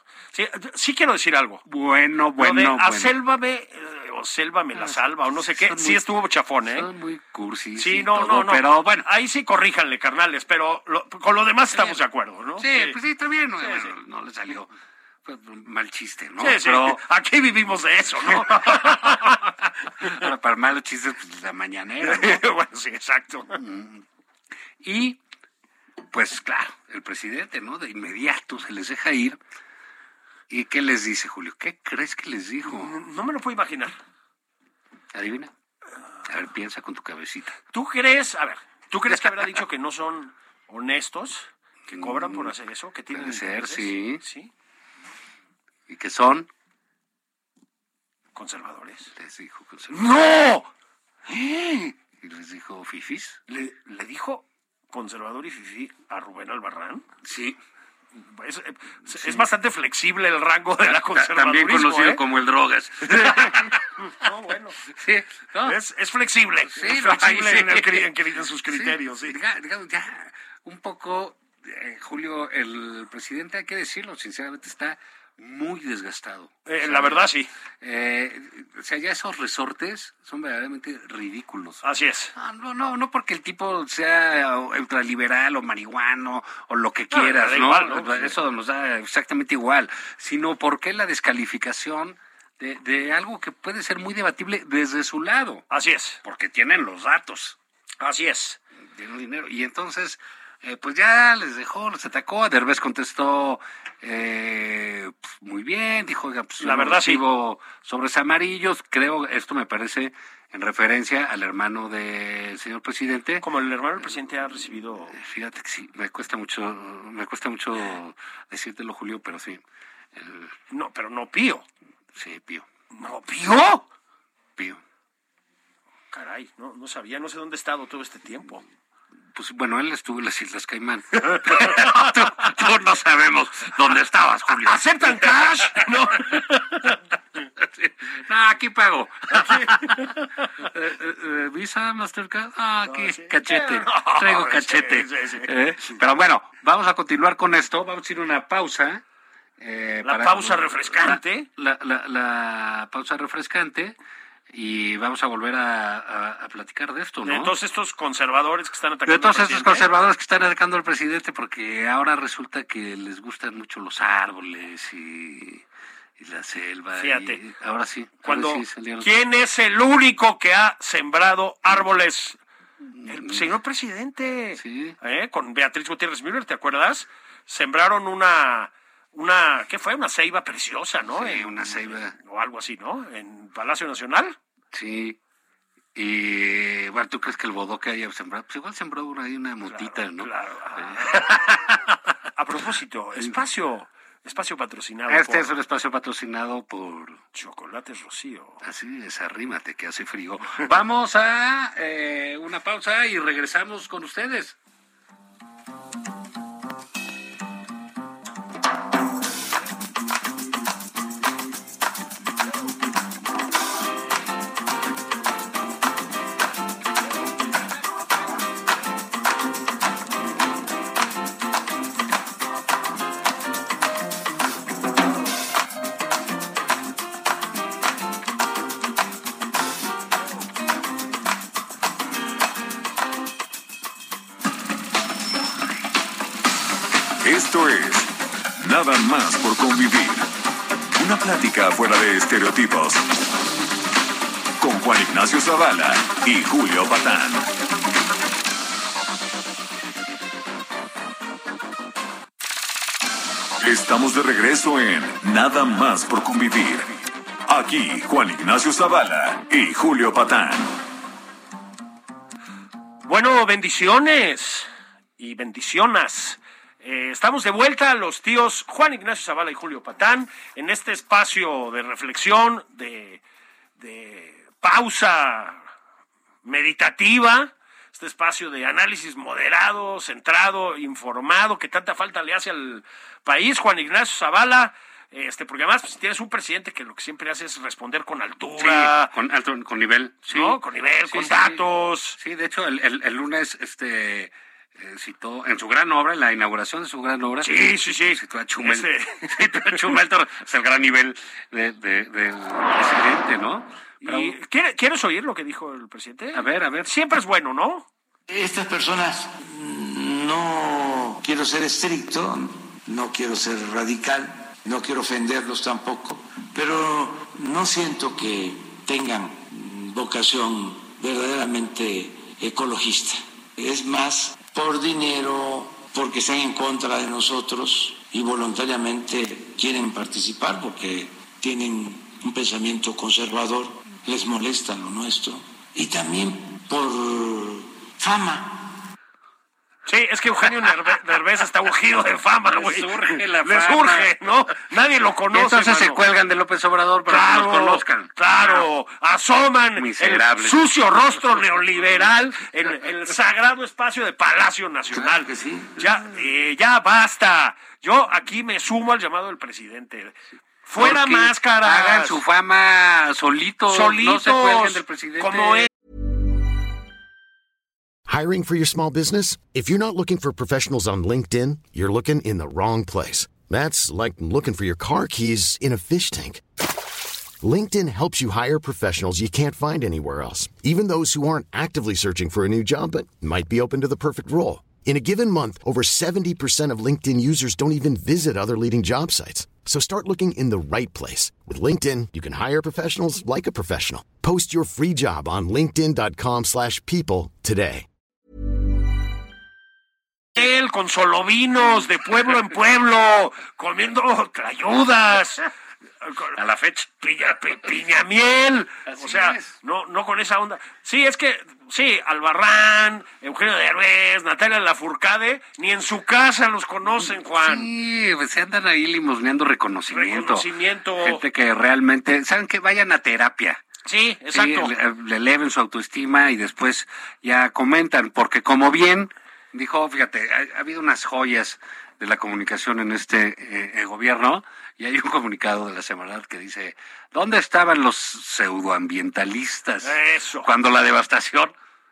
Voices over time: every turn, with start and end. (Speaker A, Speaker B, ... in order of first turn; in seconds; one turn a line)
Speaker A: 0.3-1.6
Speaker B: 1.6-3.1
Speaker A: 2.4-6.9
Speaker B: 4.8-6.0
Speaker B: 6.6-9.1
Speaker A: 7.8-13.0
Speaker B: 11.7-12.0
Speaker B: 12.6-14.7
Speaker A: 13.6-13.9
Speaker B: 15.2-17.0
Speaker A: 16.4-20.2
Speaker B: 18.2-19.5
Speaker B: 20.0-22.4
Speaker A: 22.0-23.6
Speaker B: 23.5-24.0
Speaker B: 24.8-25.2
Speaker B: 26.1-29.4
Speaker B: 30.5-32.9
Speaker A: 32.6-34.0
Speaker B: 35.1-35.5
Speaker B: 36.2-37.6
Speaker A: 37.7-44.5
Speaker B: 41.9-42.5
Speaker B: 43.1-44.2
Speaker B: 45.9-46.5
Speaker A: 48.3-49.1
Speaker B: 49.1-50.3
Speaker A: 49.9-50.7
Speaker A: 51.3-51.9
Speaker B: 52.2-53.4
Speaker A: 53.5-57.0
Speaker B: 57.2-57.6
Speaker A: 58.3-62.2
Speaker B: 59.1-59.5
Speaker B: 60.8-63.8
Speaker A: 63.0-64.8
Speaker B: 64.9-65.8
Speaker A: 65.6-69.4
Speaker B: 66.7-68.1
Speaker B: 68.7-77.3
Speaker A: 76.7-77.5
Speaker B: 77.8-81.8
Speaker A: 81.8-82.3
Speaker B: 82.3-95.7
Speaker A: 87.1-88.3
Speaker A: 95.7-96.2
Speaker B: 96.2-97.6
Speaker A: 98.0-98.6
Speaker B: 98.9-113.5
Speaker A: 106.6-107.2
Speaker A: 113.4-115.2
Speaker B: 114.0-114.5
Speaker B: 115.1-119.6
Speaker B: 120.1-120.5
Speaker A: 120.7-121.6
Speaker B: 122.1-122.7
Speaker A: 122.9-123.9
Speaker A: 126.1-128.6
Speaker B: 129.3-136.4
Speaker A: 131.2-132.1
Speaker A: 134.6-137.0
Speaker B: 137.6-149.0
Speaker A: 139.3-140.3
Speaker A: 142.9-145.5
Speaker B: 149.6-153.9
Speaker A: 150.0-151.5
Speaker B: 154.5-157.5
Speaker A: 157.2-159.9
Speaker B: 159.1-165.6
Speaker B: 166.2-169.1
Speaker A: 166.9-167.4
Speaker A: 168.2-172.4
Speaker B: 172.9-173.5
Speaker A: 173.1-184.3
Speaker B: 174.6-174.9
Speaker B: 181.1-182.1
Speaker B: 184.7-185.2
Speaker B: 185.9-191.7
Speaker A: 189.7-191.8
Speaker A: 192.3-195.5
Speaker B: 195.1-197.2
Speaker A: 197.3-198.6
Speaker B: 198.6-204.6
Speaker C: 237.2-240.3
Speaker C: 240.9-243.1
Speaker C: 244.6-247.5
Speaker C: 253.6-256.9
Speaker C: 257.5-260.8
Speaker A: 263.0-264.7
Speaker A: 265.2-273.2
Speaker A: 273.8-275.6
Speaker A: 276.4-289.1
Speaker B: 288.6-291.6
Speaker A: 290.3-292.2
Speaker B: 292.1-304.4
Speaker A: 297.4-300.0
Speaker A: 304.0-307.9
Speaker B: 306.3-306.9
Speaker D: 308.3-338.7
Speaker A: 339.9-346.0
Speaker B: 342.5-344.1
Speaker B: 345.3-348.6
Speaker A: 347.1-362.2
Speaker B: 349.7-350.7
Speaker D: 354.9-356.0
Speaker B: 360.7-365.7
Speaker A: 363.7-365.7
Speaker E: 368.1-376.4
Speaker E: 377.4-397.9
Speaker A: 400.4-405.5
Speaker A: 406.0-417.7
Speaker B: 406.3-406.8
Speaker B: 408.9-409.5
Speaker B: 417.0-423.6
Speaker A: 419.9-421.2
Speaker A: 423.8-424.7
Speaker B: 424.3-441.5
Speaker A: 439.8-440.5